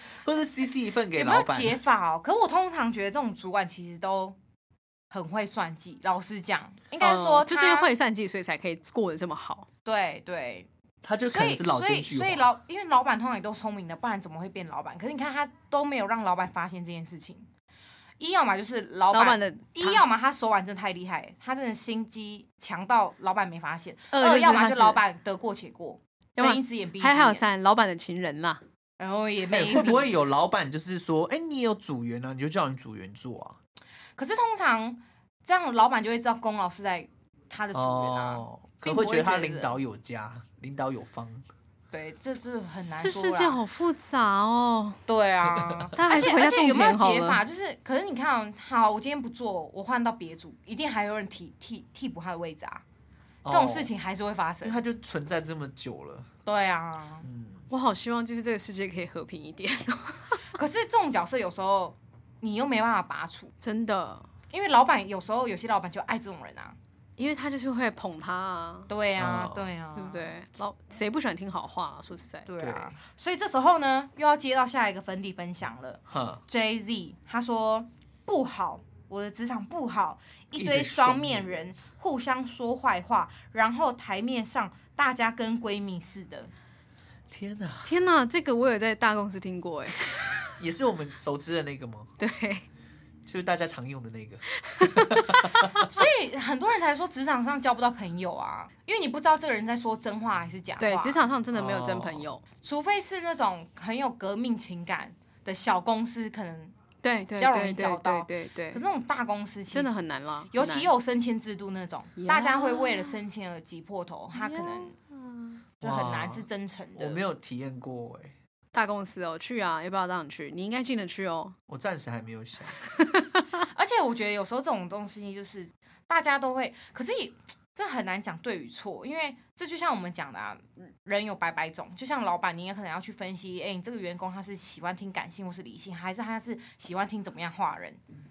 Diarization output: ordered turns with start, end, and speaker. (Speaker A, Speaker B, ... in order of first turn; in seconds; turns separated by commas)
Speaker A: 0.2-1.8, Speaker B: 1.1-4.3, Speaker B: 5.1-7.9, Speaker C: 7.0-9.7, Speaker B: 9.8-10.7, Speaker A: 11.0-12.5, Speaker B: 11.3-17.5, Speaker B: 18.2-27.4, Speaker C: 19.1-20.0, Speaker C: 24.1-25.0, Speaker C: 26.4-28.6, Speaker B: 29.0-30.1, Speaker A: 29.5-33.6, Speaker B: 34.2-39.8, Speaker A: 37.7-41.4, Speaker B: 41.9-43.6, Speaker C: 43.0-45.0, Speaker B: 45.1-52.8, Speaker C: 45.9-47.4, Speaker A: 53.4-53.9, Speaker B: 53.5-54.8, Speaker A: 54.6-56.3, Speaker B: 56.5-57.2, Speaker A: 57.2-57.6, Speaker C: 57.7-60.5, Speaker B: 60.5-63.5, Speaker C: 63.6-64.3, Speaker B: 64.5-66.8, Speaker C: 67.2-68.9, Speaker B: 68.9-70.3, Speaker A: 69.2-69.7, Speaker C: 70.0-72.5, Speaker B: 72.5-86.5, Speaker A: 72.6-72.9, Speaker A: 76.1-76.4, Speaker A: 80.5-81.6, Speaker A: 87.3-87.9, Speaker C: 87.8-90.5, Speaker A: 90.6-92.1, Speaker C: 92.2-92.7, Speaker A: 93.2-95.9, Speaker C: 94.6-95.5, Speaker B: 95.6-101.2, Speaker C: 100.8-102.4, Speaker A: 101.5-102.2, Speaker B: 102.6-106.7, Speaker C: 107.0-108.8, Speaker B: 107.4-109.9, Speaker C: 109.7-110.9, Speaker B: 110.5-114.9, Speaker C: 112.2-113.2, Speaker C: 114.3-115.6, Speaker B: 115.8-117.2, Speaker A: 115.8-118.3, Speaker C: 118.7-121.5, Speaker A: 121.7-122.8, Speaker C: 122.8-123.6, Speaker B: 123.6-138.0